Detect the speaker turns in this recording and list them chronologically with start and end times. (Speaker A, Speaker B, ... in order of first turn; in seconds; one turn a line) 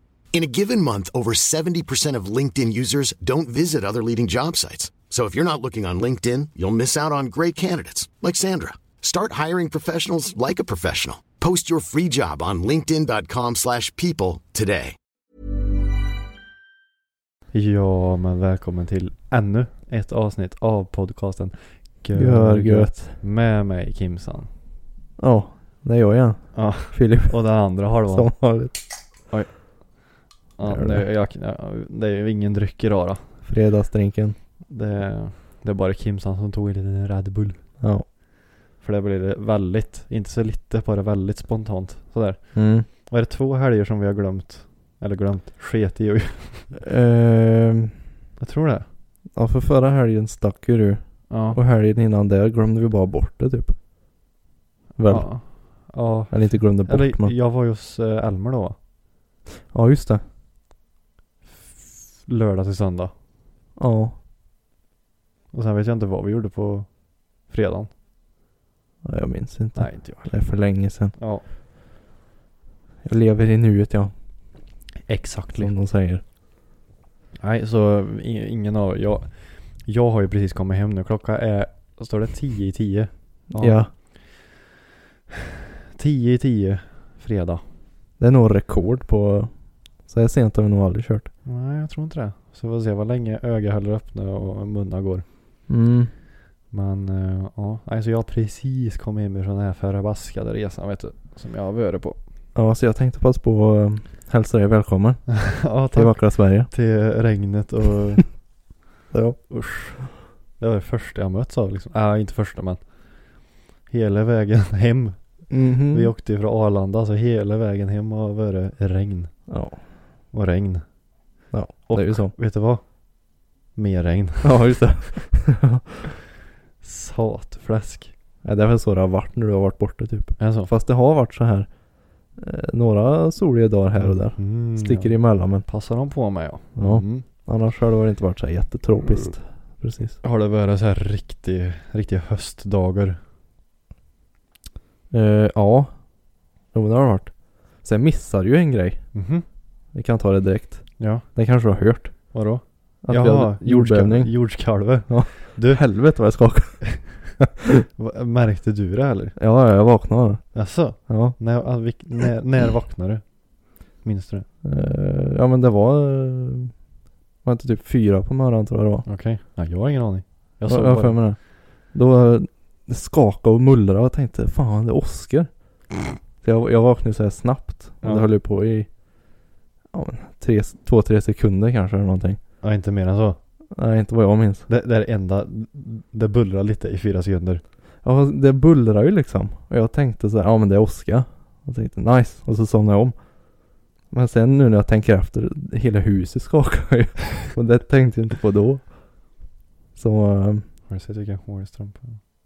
Speaker A: 0.3-15.0
Speaker B: 17.5-24.5
Speaker C: 22.1-23.2
Speaker C: 25.2-28.8
Speaker B: 26.5-28.4
Speaker B: 29.3-33.3
Speaker C: 30.6-31.1
Speaker C: 33.5-34.4
Speaker B: 34.7-37.8
Speaker C: 37.8-38.1
Speaker B: 38.8-46.7
Speaker C: 42.5-42.9
Speaker C: 46.8-48.0
Speaker B: 48.4-48.9
Speaker C: 49.3-53.8
Speaker B: 51.3-51.6
Speaker C: 55.0-55.5
Speaker B: 55.1-58.8
Speaker C: 56.3-57.3
Speaker C: 59.7-60.2
Speaker B: 61.5-63.1
Speaker C: 63.8-64.2
Speaker B: 65.5-67.9
Speaker C: 69.0-71.2
Speaker B: 69.8-70.3
Speaker B: 71.2-71.4
Speaker C: 73.0-74.1
Speaker B: 75.1-75.7
Speaker C: 75.6-76.2
Speaker B: 77.4-84.2
Speaker C: 83.6-83.9
Speaker B: 86.0-87.6
Speaker C: 88.2-89.5
Speaker C: 90.0-91.3
Speaker B: 91.5-95.2
Speaker C: 95.7-96.1
Speaker B: 96.7-102.2
Speaker C: 102.5-106.7
Speaker B: 105.3-108.5
Speaker C: 109.1-109.4
Speaker B: 109.5-119.7
Speaker C: 115.5-116.1
Speaker C: 119.5-119.8
Speaker B: 120.3-124.9
Speaker C: 121.5-122.3
Speaker C: 124.4-125.8
Speaker B: 126.8-128.1
Speaker C: 128.4-131.7
Speaker B: 130.4-130.7
Speaker C: 132.3-135.7
Speaker B: 134.0-137.2
Speaker C: 136.8-140.2
Speaker B: 140.2-143.2
Speaker C: 145.1-149.2
Speaker B: 149.1-149.4
Speaker C: 149.9-152.3
Speaker B: 151.0-151.3
Speaker B: 152.3-156.1
Speaker C: 153.0-157.4
Speaker B: 158.0-159.4
Speaker C: 159.4-161.4
Speaker B: 160.5-164.5
Speaker C: 164.6-166.8
Speaker C: 167.4-169.1
Speaker B: 169.1-171.3
Speaker C: 170.6-175.8
Speaker C: 176.4-179.0
Speaker B: 178.0-178.3
Speaker C: 179.9-182.4
Speaker B: 182.6-183.4
Speaker C: 183.8-184.7
Speaker B: 184.7-187.6
Speaker C: 188.0-199.4
Speaker C: 199.9-200.7
Speaker B: 200.9-202.2